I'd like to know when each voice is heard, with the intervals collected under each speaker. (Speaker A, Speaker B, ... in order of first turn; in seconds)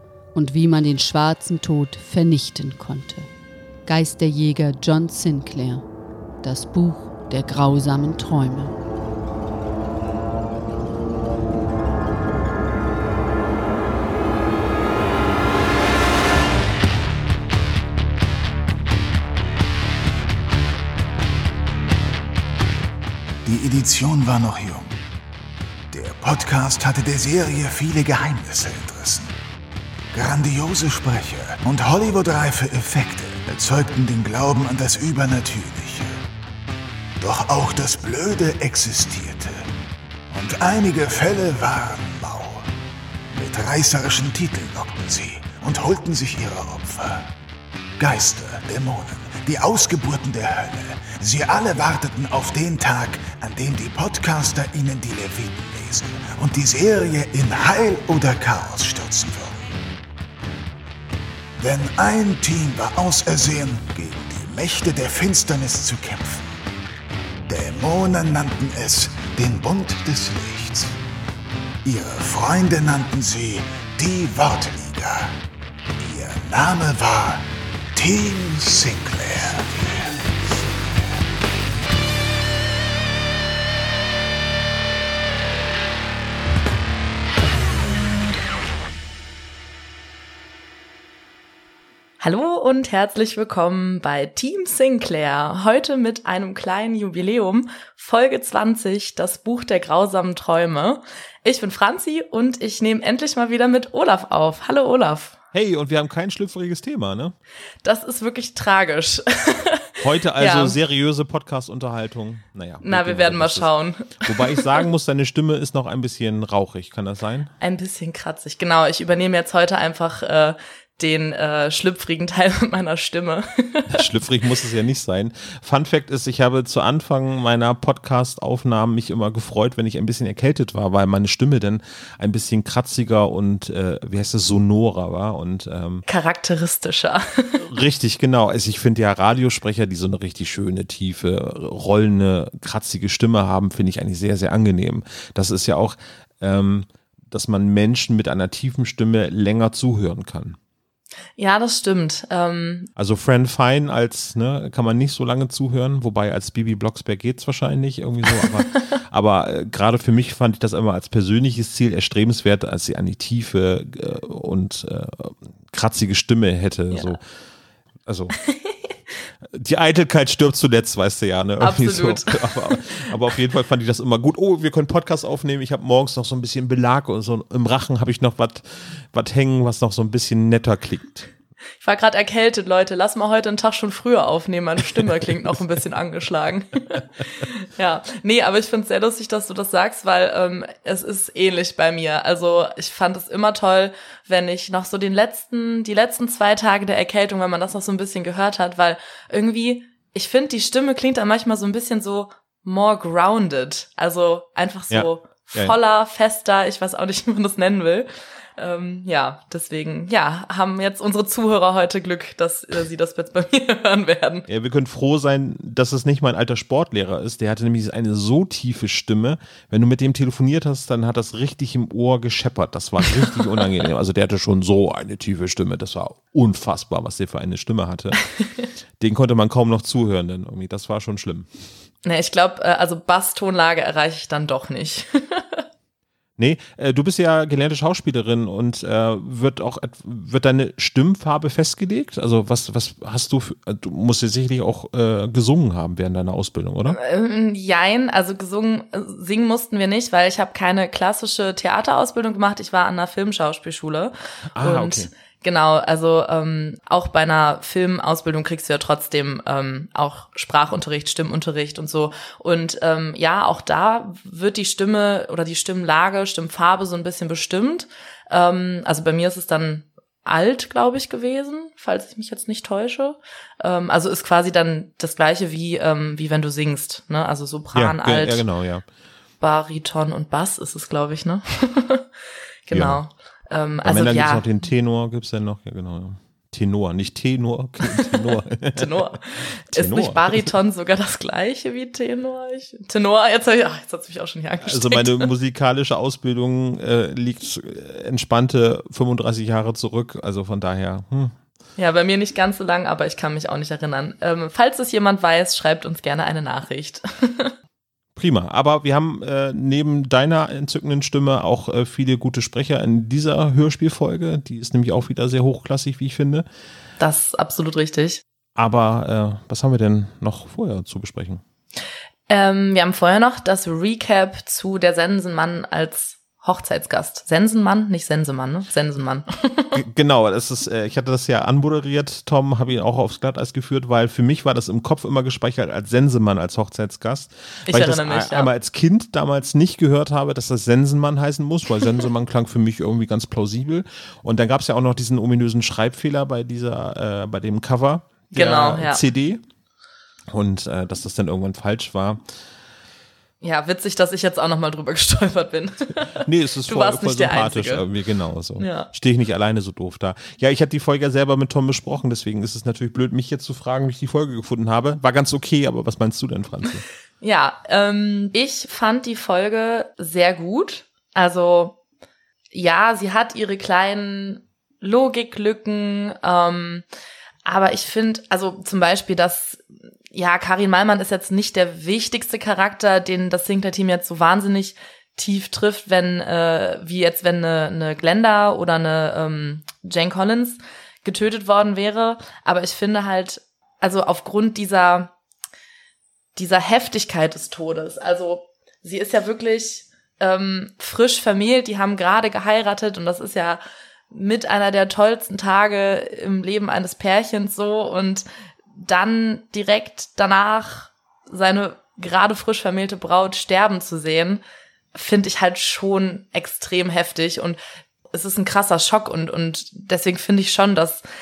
Speaker A: 0.3-3.3, 3.9-5.8, 6.4-8.7
Speaker B: 23.4-24.9, 25.9-29.3, 30.1-36.2, 37.2-39.7, 40.3-42.7, 43.3-47.3, 48.0-59.7, 61.6-66.5, 67.5-71.0, 71.8-75.3, 76.0-80.2
Speaker C: 92.2-105.4, 107.8-110.8, 112.8-114.8, 117.6-124.0, 136.1-137.6, 151.4-152.9, 168.4-168.7, 171.6-172.8, 181.8-214.5, 232.0-235.6, 246.9-278.4, 279.4-282.1, 282.7-284.4, 287.9-295.3, 301.8-307.5, 317.0-318.2, 322.3-329.8, 337.7-338.5, 348.3-349.1, 353.4-357.9, 358.6-358.9, 367.2-371.8, 372.5-376.8, 377.5-395.1, 396.4-408.2, 408.8-414.4, 414.9-417.6, 418.1-421.0
Speaker D: 105.5-107.3, 110.0-113.7, 114.2-117.5, 123.9-136.1, 137.6-150.6, 153.0-167.2, 168.1-168.3, 169.5-181.3, 204.9-205.8, 214.5-228.2, 229.0-231.5, 236.4-247.0, 254.6-255.1, 277.7-278.9, 282.7-283.0, 283.8-289.2, 289.7-290.5, 294.6-301.4, 308.2-316.5, 318.6-321.4, 329.7-349.4, 350.3-352.2, 356.1-366.8